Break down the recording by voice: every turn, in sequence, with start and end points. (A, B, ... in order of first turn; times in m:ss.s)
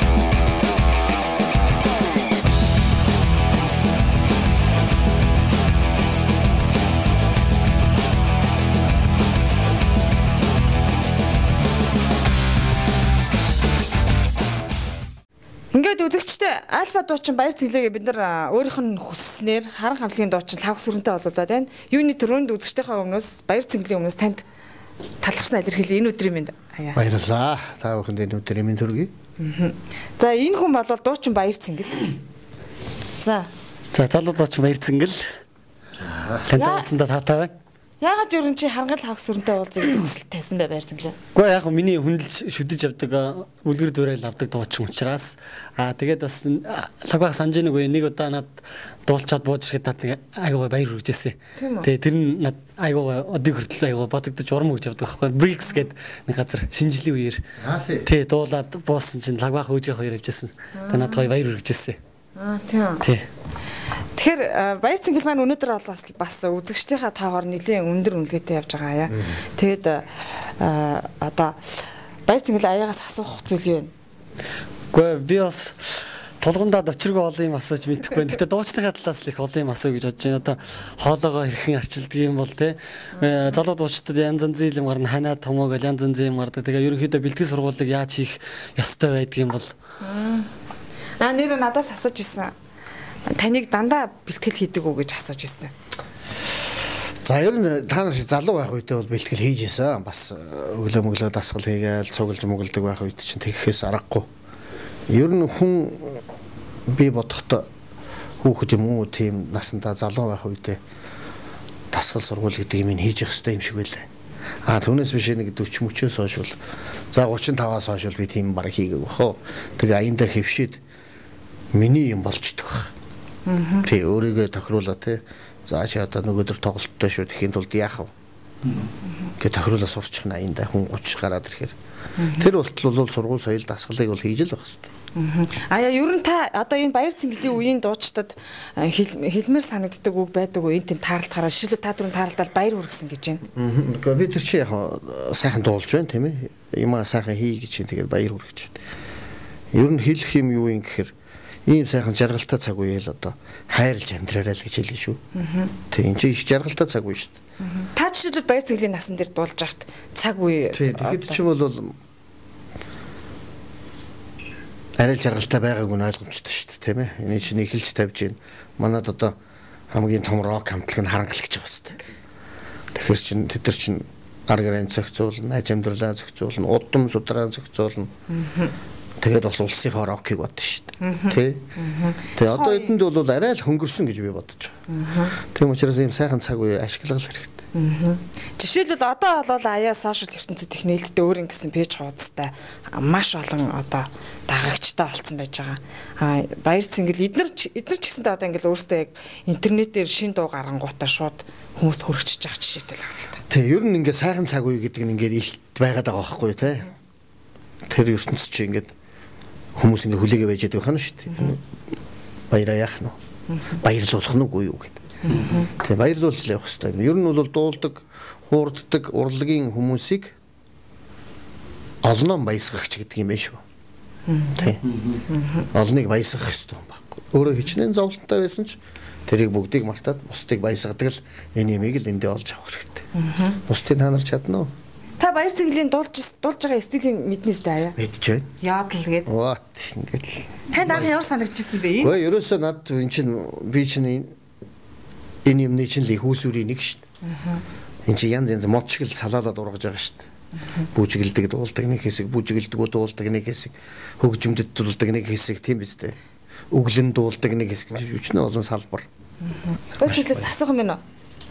0:15.7-0:24.4 A
0:25.2-0:27.0 A
0:26.9-0:29.1 B
0:29.4-0:32.2 A
0:33.2-0:33.5 A
0:33.9-0:35.2 C
0:36.0-0:36.3 B
0:36.4-0:37.5 C
0:36.5-0:36.9 A
0:38.0-0:41.2 A
0:41.3-0:57.4 C
0:51.6-0:51.9 A
0:57.6-0:58.0 B
0:58.0-1:02.0 C
1:00.8-1:01.3 A
1:02.4-1:03.0 A
1:04.1-1:13.9 A
1:14.9-1:29.7 C
1:30.0-1:30.5 A
1:31.2-1:32.5 A
1:33.3-1:35.7 A
1:37.2-1:44.3 B
1:45.1-1:46.2 B
1:46.9-1:47.6 B
1:48.4-1:50.8 B
1:51.9-1:54.1 B
1:54.6-1:56.6 B
1:57.1-2:00.8 B
2:01.7-2:02.9 B
2:03.4-2:03.9 A
2:03.8-2:08.1 B
2:09.4-2:11.7 B
2:12.2-2:12.5 A
2:12.3-2:14.9 B
2:15.1-2:23.4 A
2:23.5-2:28.8 B
2:29.7-2:31.1 B
2:31.6-2:35.2 B
2:35.3-2:35.7 A
2:35.9-2:37.4 B
2:37.6-2:41.4 A
2:40.7-2:41.9 B
2:45.0-2:49.3 B
2:49.9-2:52.0 B
2:52.9-2:58.1 B
2:58.3-2:58.7 A
2:59.2-3:01.6 B
3:01.0-3:02.9 A
3:02.3-3:07.6 B
3:04.9-3:05.4 A
3:07.7-3:23.4 A
3:23.5-3:26.9 B
3:27.9-3:28.9 B
3:29.8-3:31.6 B
3:32.5-3:33.1 B
3:33.7-3:40.3 B
3:35.2-3:35.7 A
3:35.3-3:35.6 C
3:42.0-3:43.6 B
3:44.3-3:44.6 A
3:44.5-3:44.8 B
3:44.9-3:45.2 C
3:45.3-3:45.7 A
3:45.7-3:53.0 B
3:53.1-3:53.6 A
3:53.6-3:54.7 B
3:55.2-3:58.0 A
3:58.0-3:58.5 B
3:58.6-3:59.3 A
3:59.2-4:01.1 B
4:00.7-4:02.2 A
4:02.0-4:04.3 B
4:05.4-4:07.0 B
4:07.4-4:07.6 A
4:08.0-4:10.2 B
4:10.9-4:16.2 B
4:16.7-4:19.0 B
4:19.6-4:21.0 A
4:20.0-4:20.5 B